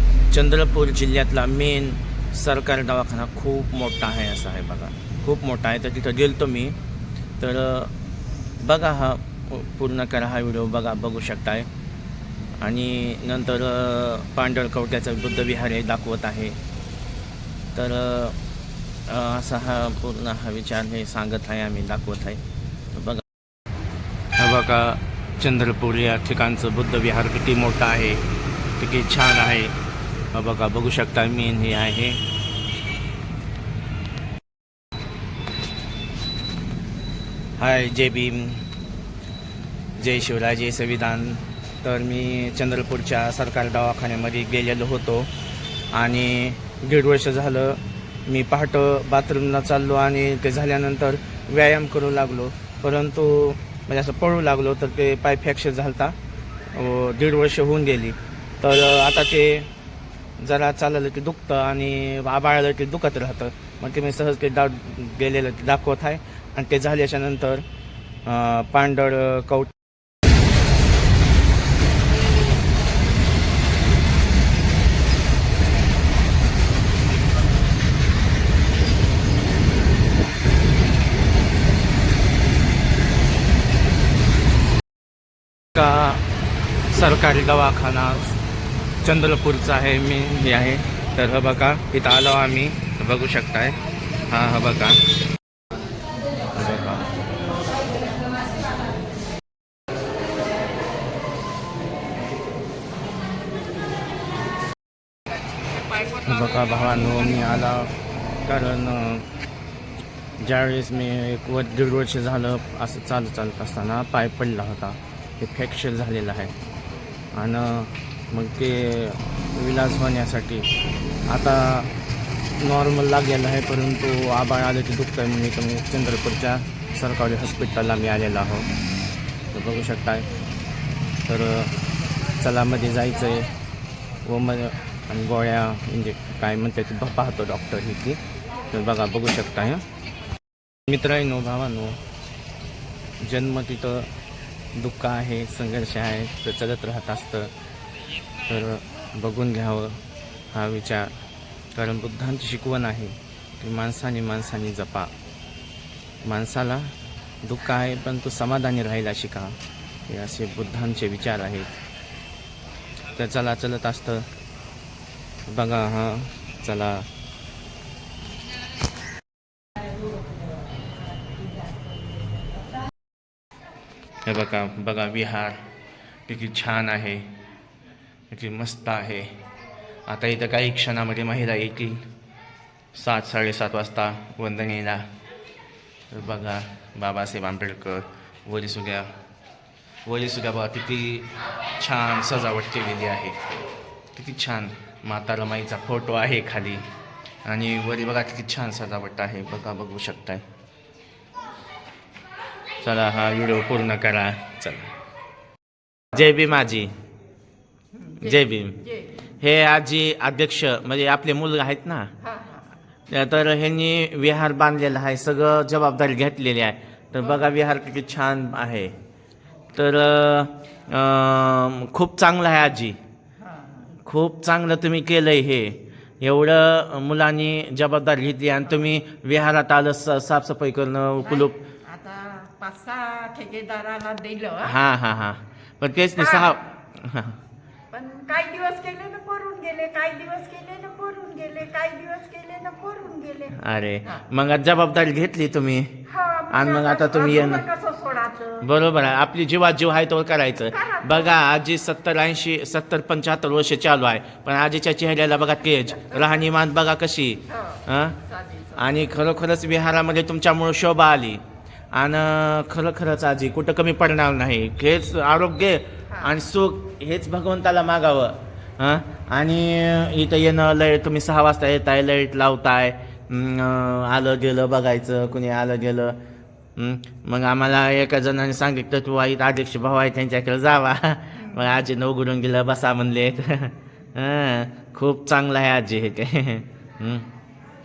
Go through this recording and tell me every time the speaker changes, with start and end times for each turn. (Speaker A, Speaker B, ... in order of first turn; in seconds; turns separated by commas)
Speaker A: 0.3-6.8, Speaker A: 7.4-7.9, Speaker A: 8.6-11.7, Speaker A: 12.6-16.6, Speaker A: 17.7-18.4, Speaker A: 19.1-22.4, Speaker A: 22.9-23.2, Speaker A: 24.4-28.2, Speaker A: 28.8-29.7, Speaker A: 30.3-32.2, Speaker A: 37.6-38.6, Speaker A: 40.0-45.3, Speaker A: 45.9-56.1, Speaker A: 56.7-59.7, Speaker A: 60.4-67.7, Speaker A: 68.2-69.7, Speaker A: 85.7-86.2, Speaker A: 86.9-88.4, Speaker A: 89.0-95.0, Speaker A: 96.5-97.1, Speaker A: 106.1-107.9, Speaker A: 108.4-109.2, Speaker A: 110.4-116.5, Speaker A: 117.3-120.7, Speaker A: 121.3-121.9, Speaker A: 122.6-128.7, Speaker A: 129.5-130.2, Speaker A: 131.3-131.7, Speaker A: 132.4-133.5, Speaker A: 134.2-138.2, Speaker A: 138.7-139.8, Speaker A: 140.9-142.0, Speaker A: 143.2-144.1, Speaker A: 144.7-147.5, Speaker A: 148.5-150.0, Speaker A: 150.5-151.1, Speaker A: 151.7-155.1, Speaker A: 156.2-156.9, Speaker A: 157.4-159.6, Speaker A: 160.1-161.7, Speaker A: 163.1-164.3, Speaker A: 165.5-167.1, Speaker A: 174.2-175.6, Speaker A: 176.3-177.3, Speaker A: 178.3-179.3, Speaker A: 180.1-182.0, Speaker A: 182.9-185.1, Speaker A: 186.1-189.1, Speaker A: 190.0-193.4, Speaker A: 194.1-196.9, Speaker A: 197.4-200.4, Speaker A: 202.8-204.9, Speaker A: 206.1-206.9, Speaker B: 208.0-209.1, Speaker A: 208.2-208.8, Speaker A: 209.4-212.1, Speaker B: 212.2-212.7, Speaker A: 213.1-218.9, Speaker A: 219.7-223.0, Speaker B: 223.4-223.9, Speaker A: 224.0-231.6, Speaker B: 231.3-234.7, Speaker A: 234.6-237.4, Speaker B: 236.2-236.5, Speaker B: 237.9-244.2, Speaker A: 243.5-247.7, Speaker B: 246.1-248.7, Speaker A: 248.6-258.2, Speaker B: 250.7-251.4, Speaker B: 257.5-259.0, Speaker A: 258.7-261.4, Speaker A: 261.9-276.2, Speaker B: 266.1-266.3, Speaker A: 276.8-287.3, Speaker B: 281.4-281.7